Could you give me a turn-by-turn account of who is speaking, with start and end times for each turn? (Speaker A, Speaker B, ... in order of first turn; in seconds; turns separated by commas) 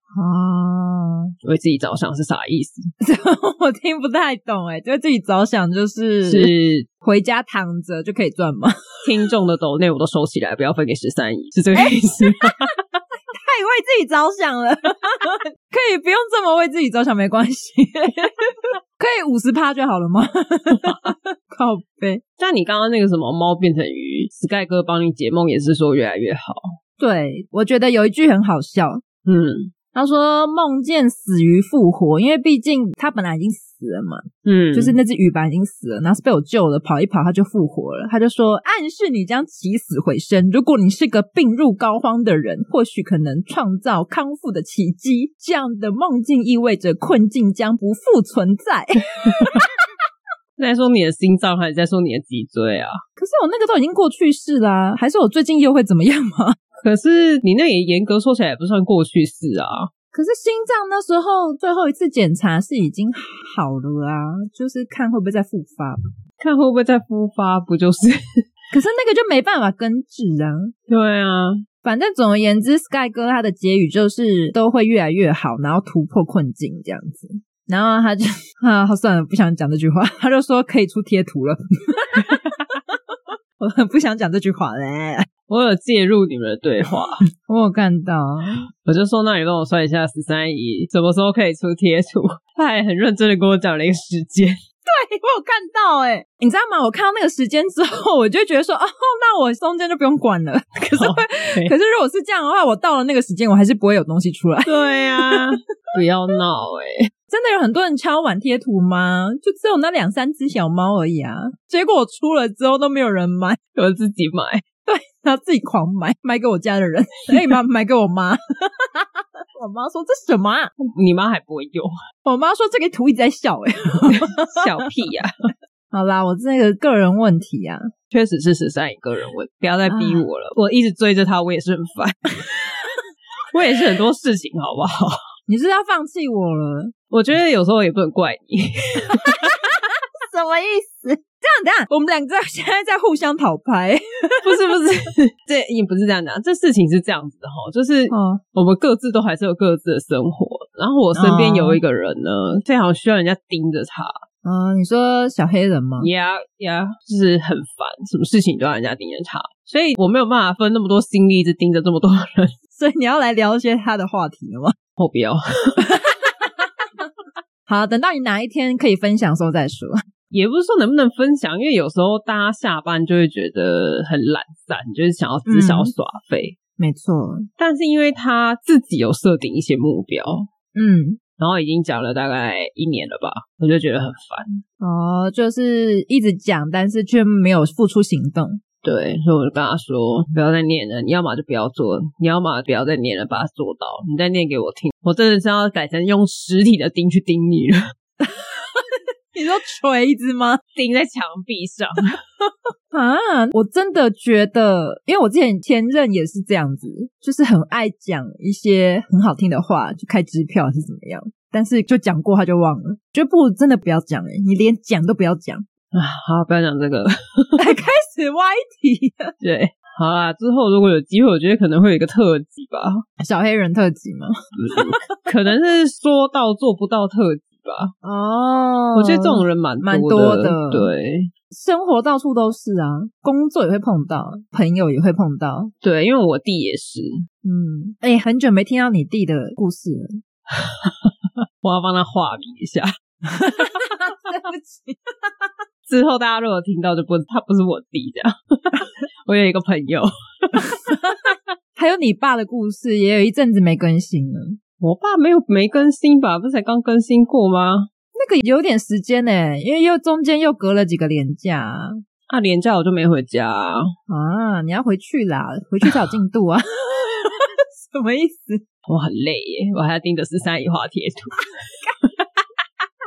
Speaker A: 0.1-1.3, Speaker B: 1.4-2.8, Speaker A: 3.0-9.0, Speaker B: 6.2-6.8, Speaker B: 9.0-12.7, Speaker A: 11.8-12.5, Speaker A: 13.3-22.2, Speaker B: 22.4-26.6, Speaker A: 27.0-29.0, Speaker B: 29.2-29.7, Speaker A: 29.9-49.8, Speaker B: 34.4-35.0, Speaker B: 50.5-53.0, Speaker A: 53.2-56.6, Speaker B: 56.8-59.9, Speaker A: 60.1-66.0, Speaker B: 66.4-68.2, Speaker A: 68.7-70.7, Speaker B: 70.9-71.6, Speaker A: 71.8-83.0, Speaker A: 83.6-85.3, Speaker B: 85.5-87.2, Speaker A: 87.5-88.6, Speaker B: 88.8-94.6, Speaker A: 94.8-106.0, Speaker B: 100.9-101.7, Speaker B: 104.6-107.1, Speaker A: 107.3-113.6, Speaker B: 113.7-114.6, Speaker A: 114.8-120.7, Speaker B: 120.8-121.9, Speaker A: 122.2-124.7, Speaker B: 124.2-125.3, Speaker A: 125.9-127.9, Speaker B: 128.1-132.3, Speaker A: 129.8-130.2, Speaker B: 133.5-135.2, Speaker A: 135.5-136.9, Speaker B: 137.1-139.4, Speaker A: 139.1-144.7, Speaker B: 144.4-154.1, Speaker A: 148.1-148.4, Speaker A: 151.1-151.8, Speaker A: 154.4-156.1, Speaker B: 156.0-162.6, Speaker A: 162.7-164.8, Speaker B: 165.0-165.9, Speaker A: 165.9-167.0, Speaker A: 167.7-170.0, Speaker B: 170.3-176.6, Speaker A: 175.4-175.9, Speaker A: 176.8-177.5, Speaker B: 177.6-180.5, Speaker A: 180.8-181.2, Speaker B: 181.4-184.6, Speaker A: 184.8-188.6, Speaker B: 188.8-197.8, Speaker A: 198.2-200.6, Speaker B: 200.7-202.1, Speaker A: 202.9-215.7, Speaker B: 215.9-217.6, Speaker A: 217.6-219.3, Speaker B: 219.4-223.0, Speaker A: 223.2-225.1, Speaker B: 224.5-227.9, Speaker A: 228.0-230.9, Speaker B: 228.9-231.3, Speaker A: 231.5-235.7, Speaker B: 235.8-237.1, Speaker A: 237.4-240.2, Speaker B: 240.6-242.9, Speaker A: 243.3-245.5, Speaker B: 245.9-251.0, Speaker A: 250.7-251.2, Speaker A: 251.8-254.6, Speaker B: 254.8-257.9, Speaker A: 258.1-262.0, Speaker B: 262.3-263.9, Speaker A: 264.1-268.6, Speaker B: 268.9-271.4